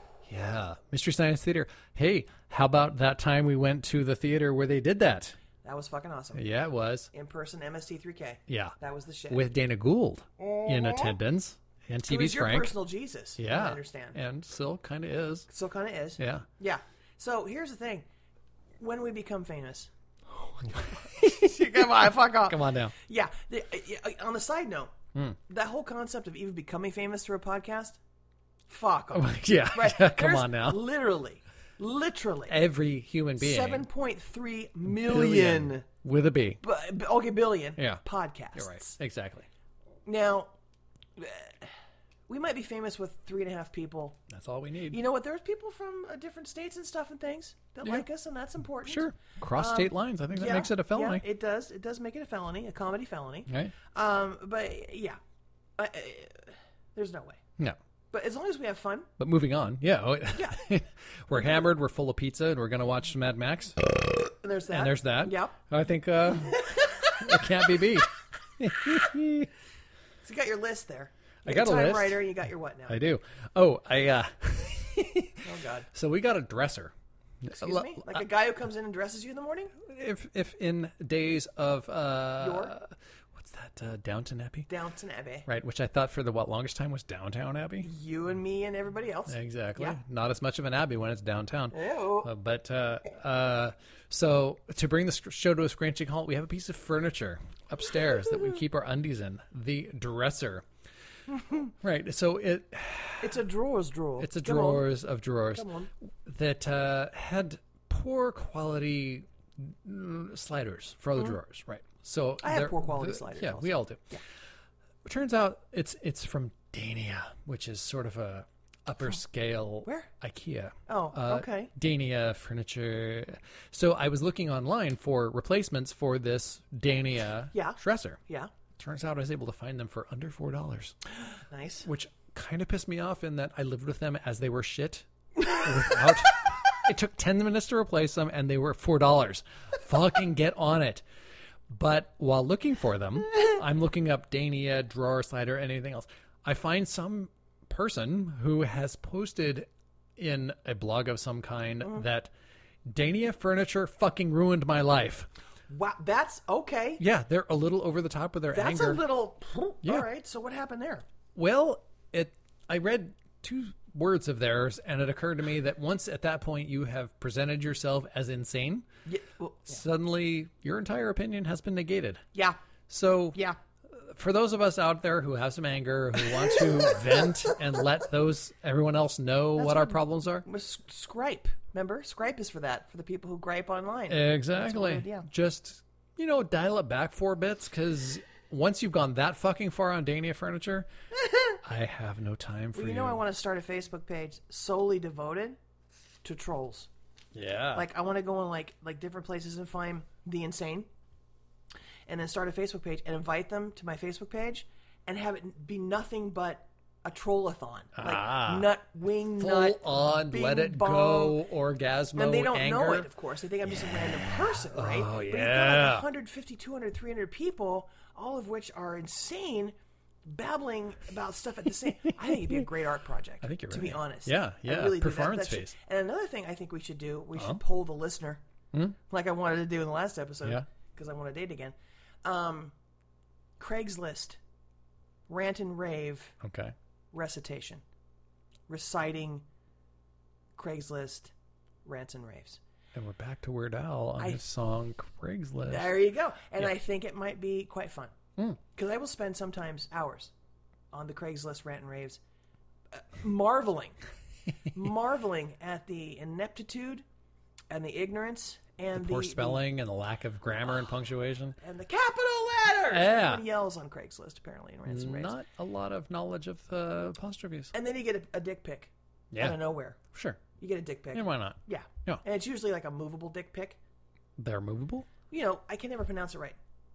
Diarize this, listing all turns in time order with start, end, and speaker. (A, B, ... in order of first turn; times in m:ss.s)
0:00.2-0:05.4 A
0:05.6-0:06.4 B
0:06.3-0:07.1 A
0:07.1-0:09.4 B
0:08.5-0:08.8 A
0:09.3-0:12.8 A
0:12.1-0:14.2 B
0:13.4-0:15.5 A
0:15.5-0:18.1 B
0:16.2-0:16.4 A
0:18.8-0:19.9 B
0:20.6-0:23.0 A
0:20.9-0:24.9 B
0:25.5-0:28.0 B
0:28.7-0:32.6 B
0:29.1-0:30.8 A
0:32.5-0:33.9 A
0:33.4-0:35.9 B
0:34.9-0:36.6 A
0:36.6-0:38.9 B
0:38.6-0:39.5 A
0:40.1-0:40.5 B
0:41.2-0:41.7 B
0:42.3-0:44.2 B
0:44.3-0:45.0 A
0:44.9-0:55.2 B
0:48.8-0:51.2 A
0:53.5-0:53.7 A
0:55.8-0:57.4 B
0:58.1-0:59.1 B
0:59.2-1:03.8 A
1:00.3-1:00.6 B
1:04.4-1:05.6 B
1:04.7-1:09.5 A
1:06.6-1:07.2 B
1:10.2-1:13.0 B
1:11.4-1:12.3 A
1:12.9-1:18.2 A
1:15.4-1:15.9 B
1:17.5-1:19.8 B
1:19.8-1:24.7 A
1:22.4-1:22.8 B
1:24.7-1:25.5 B
1:25.5-1:27.9 A
1:27.8-1:30.0 B
1:29.3-1:40.6 A
1:31.7-1:32.3 B
1:41.4-1:41.6 B
1:41.8-1:43.4 A
1:43.2-1:44.9 B
1:44.2-1:45.7 A
1:45.5-1:45.9 B
1:46.2-1:54.1 A
1:52.4-1:54.2 B
1:55.0-2:08.2 A
2:00.9-2:01.7 B
2:07.5-2:08.5 B
2:08.8-2:11.0 A
2:11.5-2:11.9 B
2:11.8-2:21.0 A
2:21.7-2:32.3 A
2:32.9-2:35.3 A
2:35.7-2:37.0 B
2:37.0-2:39.0 A
2:38.5-2:41.0 B
2:41.4-2:48.9 A
2:49.0-2:49.8 B
2:49.7-2:52.2 A
2:52.9-2:53.4 A
2:53.9-3:00.4 A
2:59.6-3:05.3 B
3:04.1-3:10.9 A
3:11.6-3:13.2 A
3:12.8-3:15.6 B
3:16.2-3:16.9 B
3:17.3-3:17.9 A
3:17.7-3:20.9 B
3:22.1-3:31.4 B
3:28.0-3:28.7 A
3:29.4-3:33.1 A
3:32.2-3:39.8 B
3:34.7-3:36.1 A
3:40.3-3:48.4 B
3:42.3-3:42.6 A
3:43.4-3:45.7 A
3:47.4-3:47.6 A
3:49.1-3:52.7 B
3:53.6-3:54.4 B
3:55.3-3:56.3 B
3:56.4-3:56.8 A
3:57.1-3:57.8 B
3:58.7-3:59.4 B
4:00.6-4:01.3 B
4:01.8-4:02.6 B
4:02.9-4:05.9 A
4:05.7-4:08.1 B
4:08.7-4:10.3 B
4:10.9-4:12.2 B
4:12.9-4:14.0 B
4:14.7-4:17.0 B
4:17.7-4:19.6 B
4:18.9-4:21.6 A
4:20.7-4:21.0 B
4:21.6-4:25.4 B
4:22.8-4:23.4 A
4:24.9-4:27.7 A
4:27.7-4:30.0 B
4:29.3-4:29.6 A
4:30.1-4:30.4 A
4:30.6-4:33.8 B
4:31.1-4:32.2 A
4:34.4-4:35.1 A
4:35.3-4:36.6 B